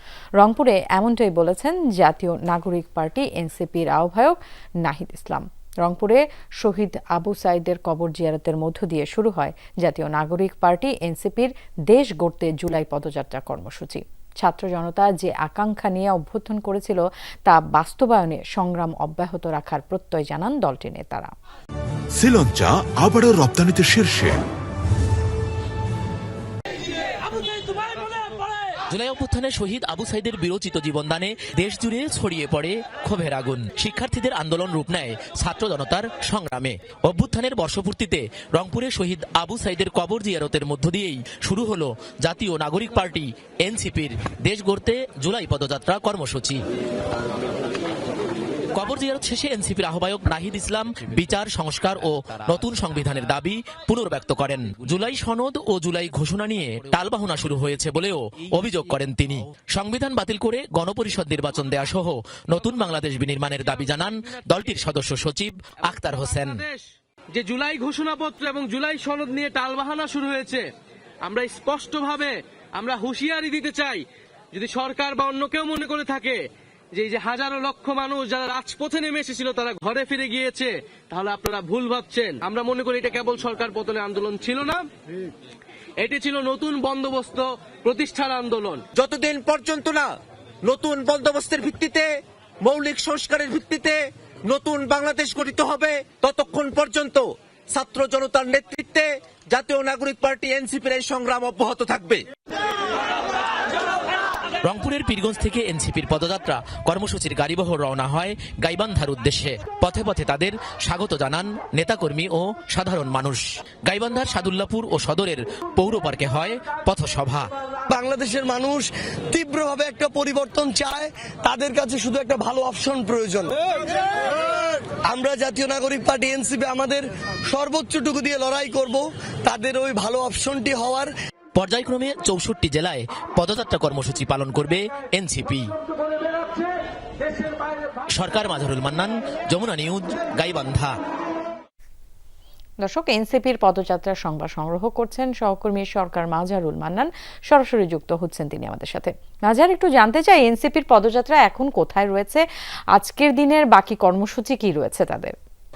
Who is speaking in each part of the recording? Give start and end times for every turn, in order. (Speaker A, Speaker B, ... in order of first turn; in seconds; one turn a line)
Speaker A: 0.4-21.3
Speaker B: 22.1-24.4
Speaker C: 28.9-46.6
Speaker C: 48.7-66.6
Speaker D: 63.9-64.6
Speaker D: 66.0-70.6
Speaker D: 71.2-76.4
Speaker D: 77.0-84.9
Speaker D: 86.0-88.9
Speaker E: 88.9-92.1
Speaker E: 92.6-102.2
Speaker C: 104.6-117.5
Speaker F: 117.9-131.1
Speaker C: 131.5-135.7
Speaker C: 138.1-140.9
Speaker A: 142.8-155.3